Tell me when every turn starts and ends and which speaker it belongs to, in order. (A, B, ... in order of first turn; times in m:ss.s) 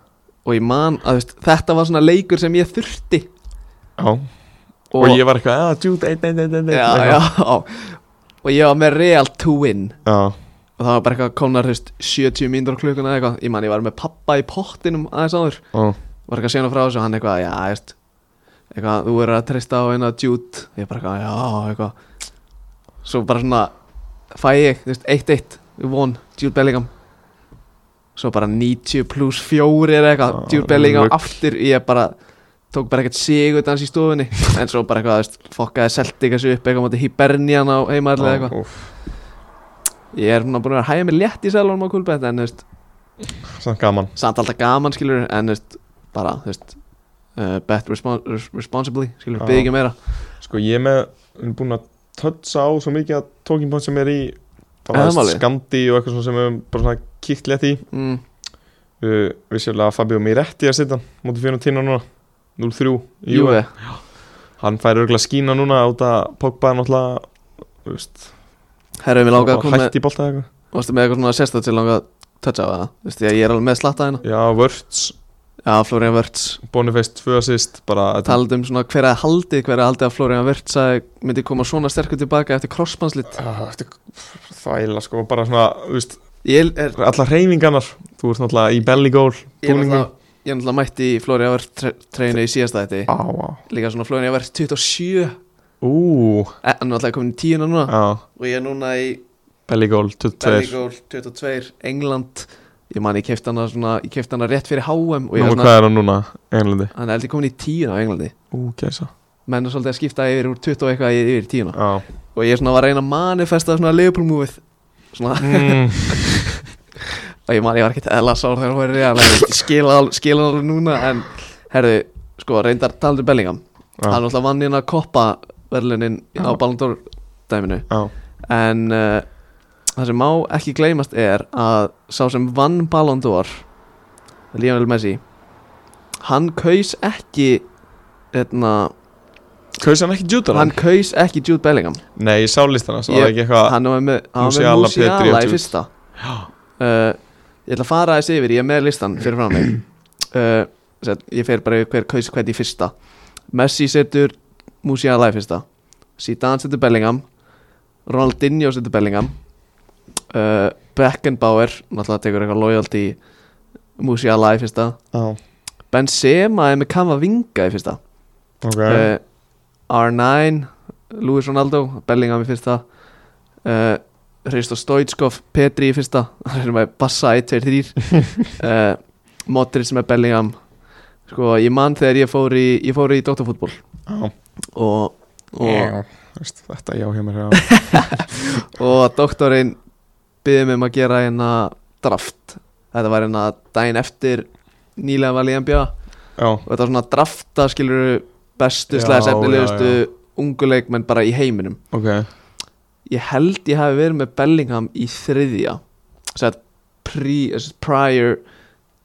0:00.4-0:03.3 A
0:04.0-0:04.3 B
0:04.9-0:05.2 A
0:04.9-0:07.2 B
0:06.7-0:10.0 A
0:10.0-0:10.4 B
0:10.8-0:15.6 A
0:16.3-0:17.9 A
0:18.7-0:22.0 A
0:23.0-0:23.7 A
0:24.3-0:26.9 A
0:28.2-0:32.2 A
0:30.3-0:31.2 B
0:32.7-0:38.6 A
0:38.2-0:38.9 B
0:40.1-0:42.6 A
0:43.5-0:44.1 B
0:44.2-0:46.8 A
0:47.4-0:50.0 A
0:49.4-0:49.7 B
0:50.4-0:57.8 B
0:54.9-0:55.4 A
0:57.9-0:58.2 A
0:59.0-1:02.0 B
1:02.6-1:04.0 B
1:03.3-1:03.7 A
1:04.6-1:07.3 B
1:07.8-1:08.3 B
1:09.0-1:09.9 A
1:09.3-1:10.5 B
1:10.7-1:14.2 A
1:14.2-1:15.1 B
1:15.6-1:16.6 A
1:16.6-1:18.4 B
1:18.2-1:23.4 A
1:23.3-1:26.2 B
1:26.4-1:27.0 A
1:27.0-1:30.1 B
1:29.6-1:33.1 A
1:33.1-1:33.6 B
1:33.7-1:35.4 A
1:35.8-1:36.5 B
1:36.6-1:39.2 A
1:37.9-1:38.2 B
1:39.7-1:40.8 B
1:40.4-1:45.7 A
1:45.3-1:46.9 B
1:46.9-1:48.3 A
1:48.5-1:49.1 B
1:49.5-1:51.8 A
1:51.7-1:52.0 B
1:52.3-1:54.6 A
1:55.1-1:56.6 A
1:55.4-1:56.3 B
1:57.4-2:07.9 A
2:08.5-2:09.3 A
2:10.0-2:13.7 A
2:14.5-2:15.2 A
2:16.2-2:17.7 A
2:18.3-2:18.9 A
2:19.8-2:20.7 B
2:20.5-2:22.0 A
2:22.2-2:23.8 B
2:23.1-2:25.9 A
2:24.4-2:25.7 B
2:26.8-2:32.9 A
2:33.5-2:35.6 A
2:36.2-2:37.2 A
2:38.0-2:39.3 A
2:40.3-2:43.2 A
2:44.0-2:45.0 A
2:45.1-2:45.4 B
2:45.9-2:48.0 A
2:48.6-2:49.1 B
2:48.9-2:49.2 A
2:49.9-2:52.8 A
2:53.6-3:00.6 A
3:01.3-3:03.8 A
3:04.1-3:04.3 B
3:04.7-3:05.9 A
3:05.6-3:08.3 B
3:07.5-3:09.8 A
3:10.4-3:15.9 A
3:16.4-3:16.6 B
3:16.6-3:21.8 A
3:18.9-3:20.0 B
3:21.9-3:22.3 B
3:23.1-3:25.8 A
3:26.3-3:28.4 A